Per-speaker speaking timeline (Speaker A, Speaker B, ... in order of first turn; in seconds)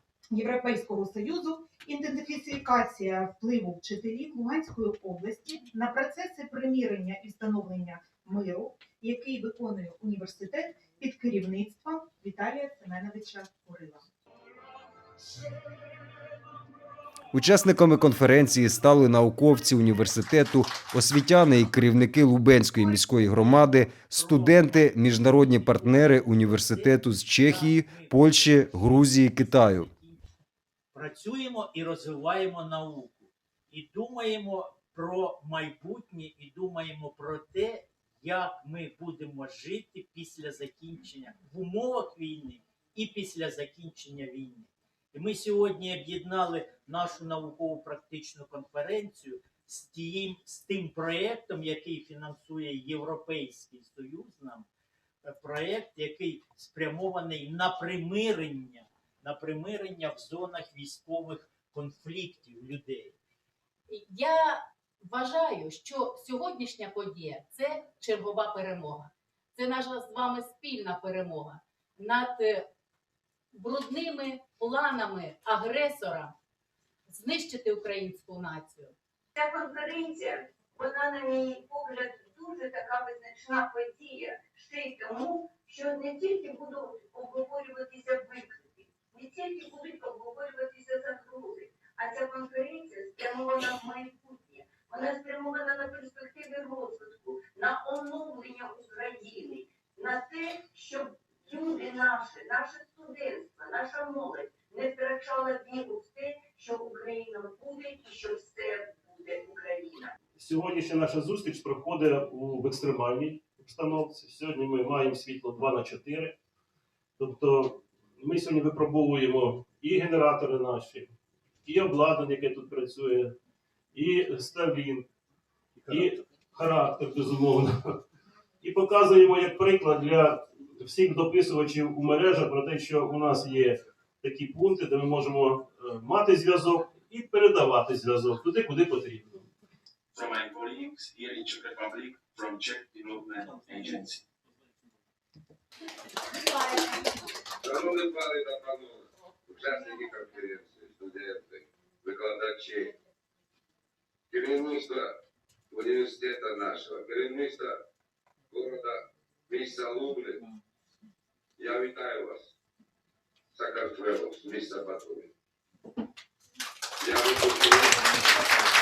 Speaker A: 0.3-14.1
Speaker B: 17.3-29.9
Speaker C: 24.1-30.3, 30.9-54.7, 55.2-63.2
Speaker D: 63.9-72.7, 73.5-76.3, 77.1-78.9
Speaker E: 79.3-110.1
Speaker F: 79.6-80.5, 81.1-83.7, 85.0-85.5, 86.4-88.5, 89.2-99.7, 100.2-110.0, 147.6-152.9, 154.3-155.2, 155.7-157.8, 158.5-160.5, 161.6-162.5, 163.5-165.3, 167.0-168.3
Speaker G: 110.4-116.4, 117.2-121.1, 121.7-123.4, 123.9-125.1, 125.8-128.0, 128.6-139.5
Speaker H: 140.1-144.2